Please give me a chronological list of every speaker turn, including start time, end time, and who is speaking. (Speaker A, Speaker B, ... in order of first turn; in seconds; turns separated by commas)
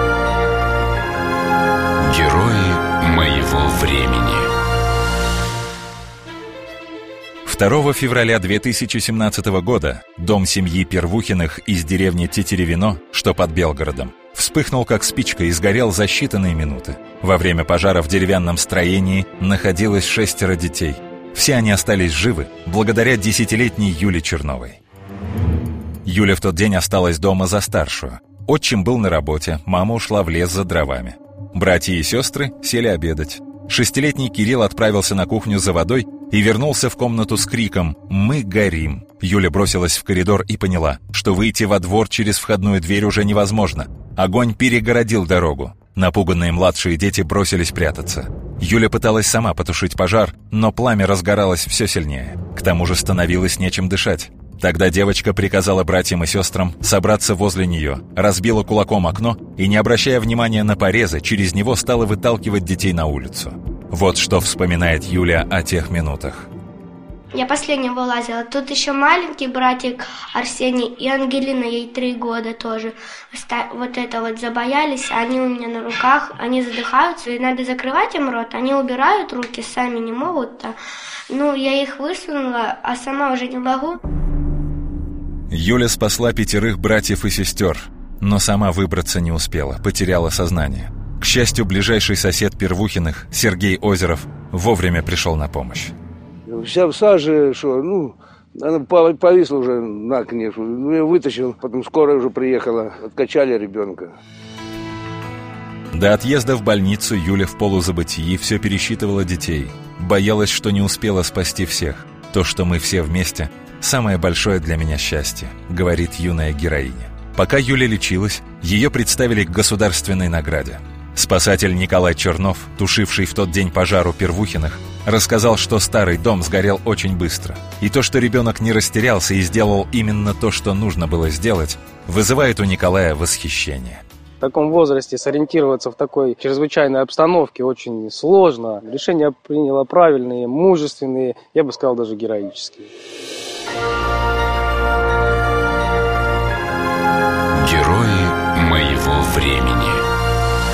Speaker A: 2.0-4.5, Speaker B: 7.5-24.8, Speaker B: 26.1-66.5, Speaker C: 67.3-80.8, Speaker C: 81.3-84.0, Speaker B: 85.5-95.9, Speaker D: 96.5-104.1, Speaker B: 105.9-134.0, Speaker E: 134.4-142.9, Speaker A: 147.6-150.0